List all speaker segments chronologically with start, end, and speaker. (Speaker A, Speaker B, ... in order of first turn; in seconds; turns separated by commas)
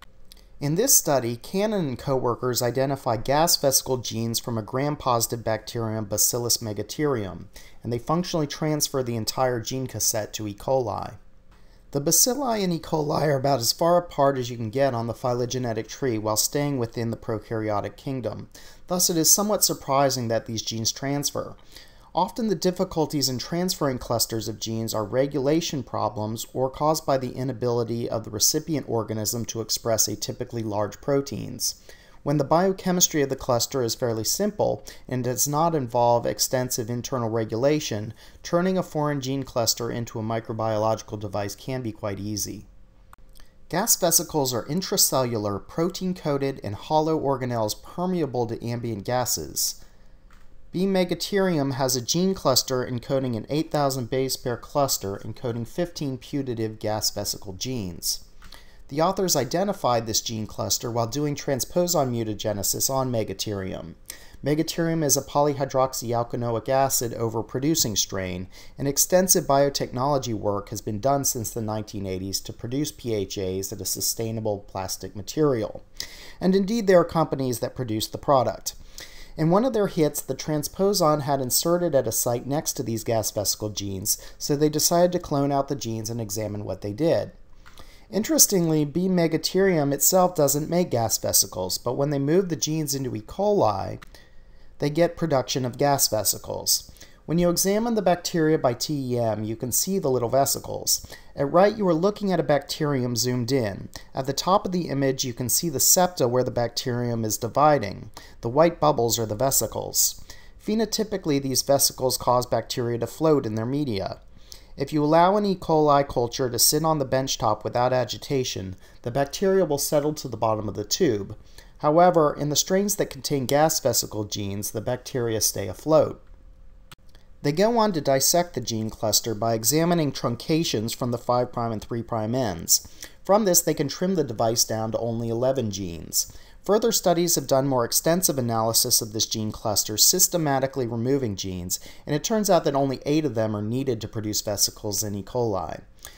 Speaker A: 0.6-11.2, Speaker A: 11.9-21.6, Speaker A: 22.1-42.7, Speaker A: 43.7-49.8, Speaker A: 50.7-58.2, Speaker A: 58.9-75.8, Speaker A: 76.4-78.8, Speaker A: 79.4-87.3, Speaker A: 88.1-94.0, Speaker A: 94.8-114.2, Speaker A: 114.8-126.2, Speaker A: 127.4-145.8